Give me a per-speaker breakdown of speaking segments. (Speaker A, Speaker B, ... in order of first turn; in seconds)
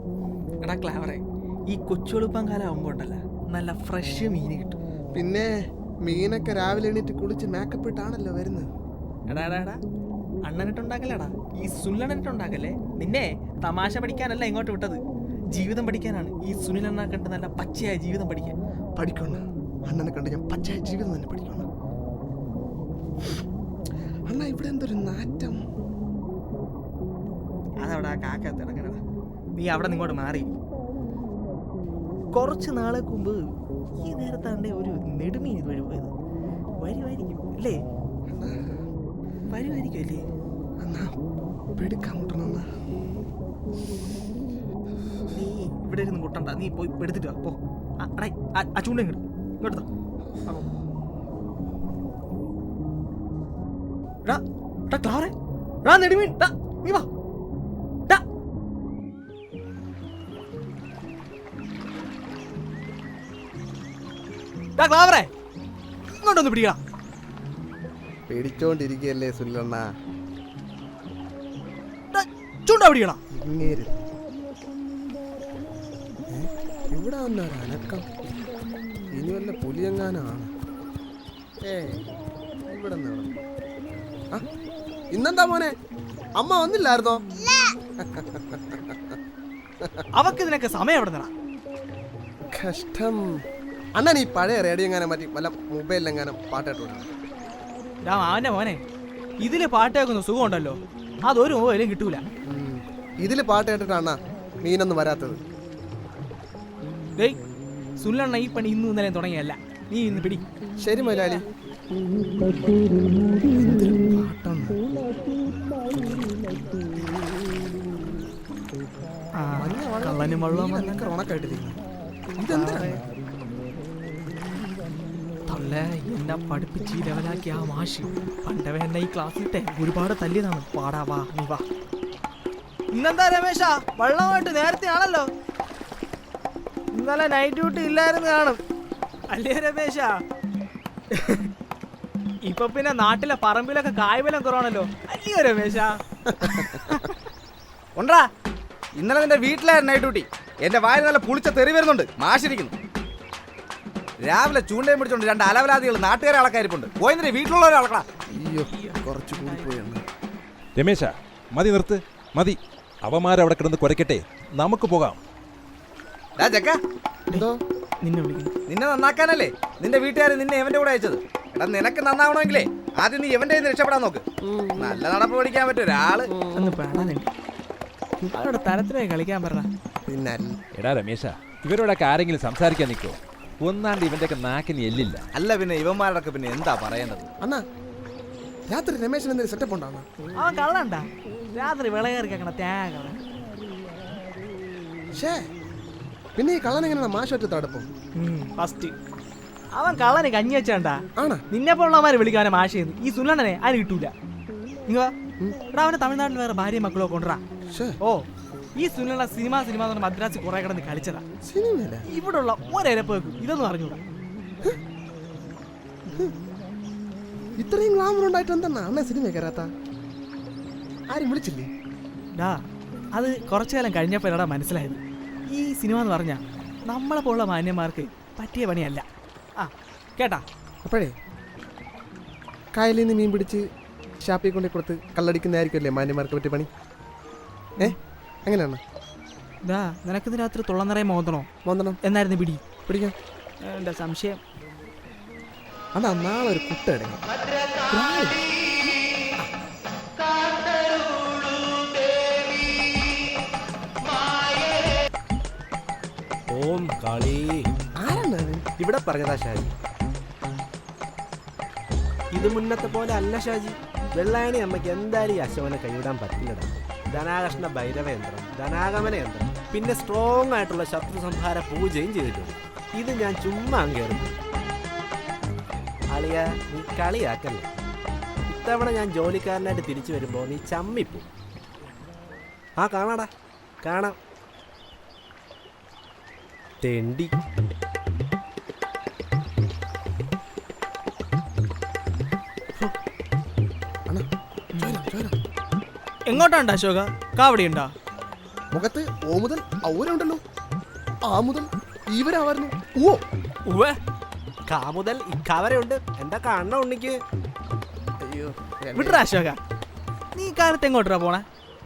Speaker A: 0.6-4.8, 9.3-9.8, 10.4-18.6, 27.8-29.0, 29.6-30.5, 32.3-33.4, 34.0-36.1, 36.8-37.8, 39.5-40.3, 45.3-49.9, 54.2-57.1, 64.8-65.3, 66.1-66.8, 72.1-73.2, 87.5-87.7, 90.1-91.3, 98.0-98.8, 99.4-102.2, 108.0-110.4, 113.4-113.9, 119.4-121.2, 122.5-123.0, 125.5-131.6, 132.9-135.3, 136.9-138.6, 139.3-140.2, 141.1-141.5, 142.5-147.2, 158.7-159.8, 168.0-168.5, 176.6-177.3, 178.2-179.7, 190.3-193.2, 198.2-198.9, 199.7-204.1, 204.9-205.1, 205.7-207.4, 208.8-211.2, 212.1-214.0, 223.1-229.1, 229.6-230.4, 239.6-241.5, 242.0-242.7, 243.6-244.4, 294.7-295.0, 296.3-297.9, 303.7-304.0, 308.9-309.6, 310.3-311.4
Speaker B: 5.1-5.5, 6.0-8.7, 19.0-21.7, 24.3-25.6, 38.3-38.8, 40.8-41.1, 41.8-42.7, 50.3-50.6, 68.3-69.9, 73.3-74.0, 76.3-78.1, 79.1-80.5, 81.6-82.0, 82.7-83.3, 85.1-85.7, 86.4-87.2, 88.0-89.2, 92.5-93.3, 94.0-97.1, 102.5-105.4, 110.8-111.4, 113.5-114.8, 115.9-116.4, 119.6-121.8, 122.4-123.0, 146.3-146.8, 158.3-160.0, 167.3-167.6, 174.4-175.0, 176.3-176.8, 180.1-180.6, 188.7-190.1, 195.2-195.4, 196.4-197.9, 201.2-201.4, 207.7-208.0, 211.4-212.0, 217.6-219.7, 221.1-221.7, 230.8-231.2, 232.7-233.6, 234.2-236.7, 237.8-238.8, 241.7-242.0, 242.9-243.2, 245.9-247.2, 247.9-248.4, 258.0-258.6, 294.8-295.4, 298.7-300.4, 301.2-303.2, 308.2-309.2
Speaker C: 148.0-148.3, 149.0-152.7, 154.2-158.1, 166.4-166.8, 168.7-174.2, 174.8-176.3, 185.3-187.3
Speaker D: 160.8-165.2, 180.8-185.2
Speaker E: 256.5-257.7, 258.8-259.8, 262.3-274.4, 276.1-277.7, 278.5-281.3, 282.8-283.3, 283.8-284.1, 286.8-287.3, 304.7-307.2